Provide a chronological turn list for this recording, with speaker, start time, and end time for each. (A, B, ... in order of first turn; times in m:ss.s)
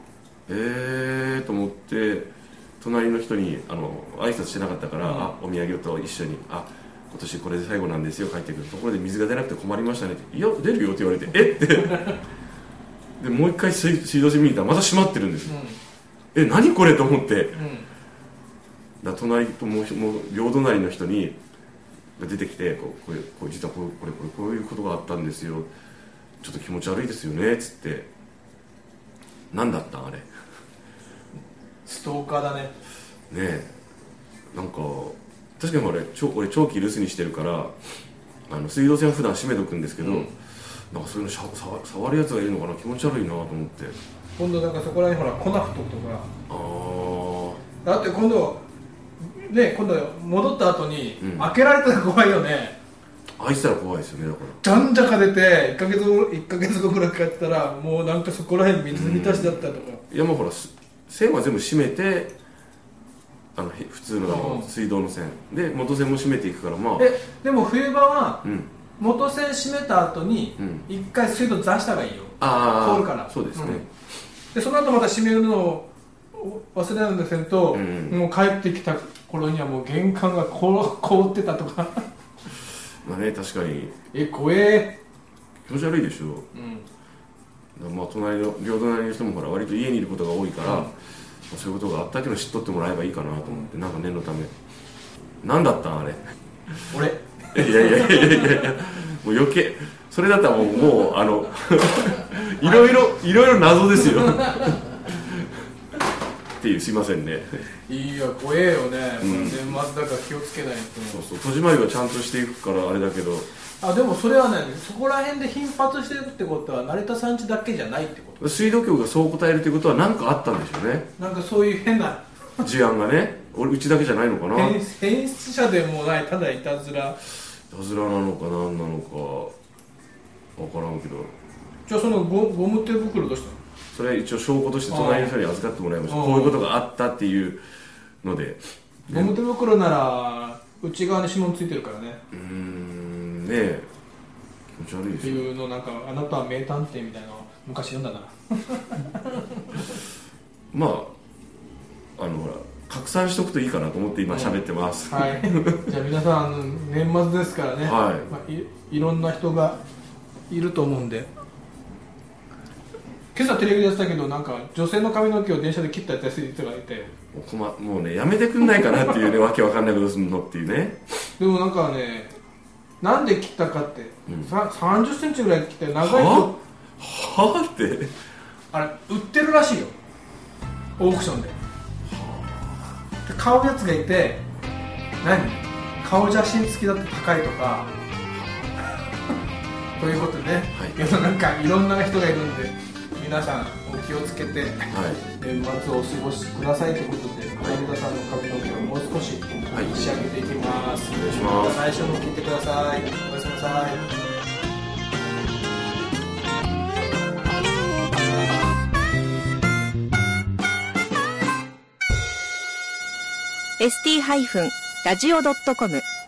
0:00.5-0:02.3 A
0:02.8-0:12.1 A
0:05.0-0:05.3 B
0:11.6-0:12.2 B
0:13.2-0:15.6 A
0:15.5-0:15.8 B
0:16.3-0:17.6 A
0:17.5-0:17.9 B
0:19.0-0:21.4 A
0:22.2-0:25.7 A
0:26.4-0:28.1 A
0:29.5-0:30.3 A
0:31.8-0:32.7 B
0:33.3-0:33.7 A
0:34.5-0:37.7 A
0:38.5-0:40.3 A
0:40.0-0:40.3 B
0:40.9-0:44.0 A
0:44.4-0:46.3 B
0:46.5-0:47.6 A
0:47.8-0:48.6 B
0:49.2-0:52.8 B
0:51.2-0:51.5 A
0:53.4-0:54.6 A
0:54.6-1:00.0 B
0:58.9-1:02.3 A
1:03.5-1:07.1 A
1:04.2-1:04.7 B
1:07.0-1:08.4 B
1:09.0-1:13.8 B
1:10.6-1:10.8 A
1:12.4-1:13.8 A
1:14.5-1:22.0 B
1:17.7-1:18.2 A
1:23.0-1:23.9 A
1:24.1-1:25.0 B
1:25.6-1:26.4 A
1:26.5-1:26.8 B
1:27.8-1:30.9 A
1:30.6-1:30.9 B
1:31.5-1:34.5 A
1:35.4-1:36.2 A
1:36.9-1:38.7 B
1:37.5-1:45.5 A
1:42.6-1:43.0 B
1:44.0-1:44.9 B
1:46.6-1:47.6 A
1:47.9-1:51.2 B
1:49.2-1:49.8 A
1:51.1-1:53.5 A
1:53.8-1:58.4 B
1:58.4-2:01.1 A
2:01.2-2:02.2 B
2:02.6-2:04.8 A
2:04.5-2:07.2 B
2:07.7-2:09.5 A
2:10.6-2:11.3 A
2:11.9-2:13.6 B
2:13.9-2:17.6 A
2:14.9-2:15.3 B
2:16.1-2:16.6 B
2:18.2-2:19.4 A
2:19.1-2:22.2 B
2:22.3-2:23.9 A
2:24.8-2:25.5 A
2:25.2-2:29.8 B
2:30.7-2:31.1 A
2:32.2-2:35.9 A
2:34.3-2:39.8 B
2:37.8-2:38.3 A
2:40.5-2:41.3 B
2:43.3-2:47.1 B
2:47.3-2:51.0 A
2:51.4-2:52.4 B
2:53.0-2:56.6 B
2:56.0-2:58.1 A
2:58.7-2:59.9 B
3:01.0-3:01.5 B
3:02.1-3:02.9 A
3:03.2-3:04.4 B
3:05.2-3:07.9 B
3:10.0-3:24.1 B
3:14.9-3:15.2 A
3:19.7-3:20.1 A
3:21.1-3:21.8 A
3:33.8-3:36.0 C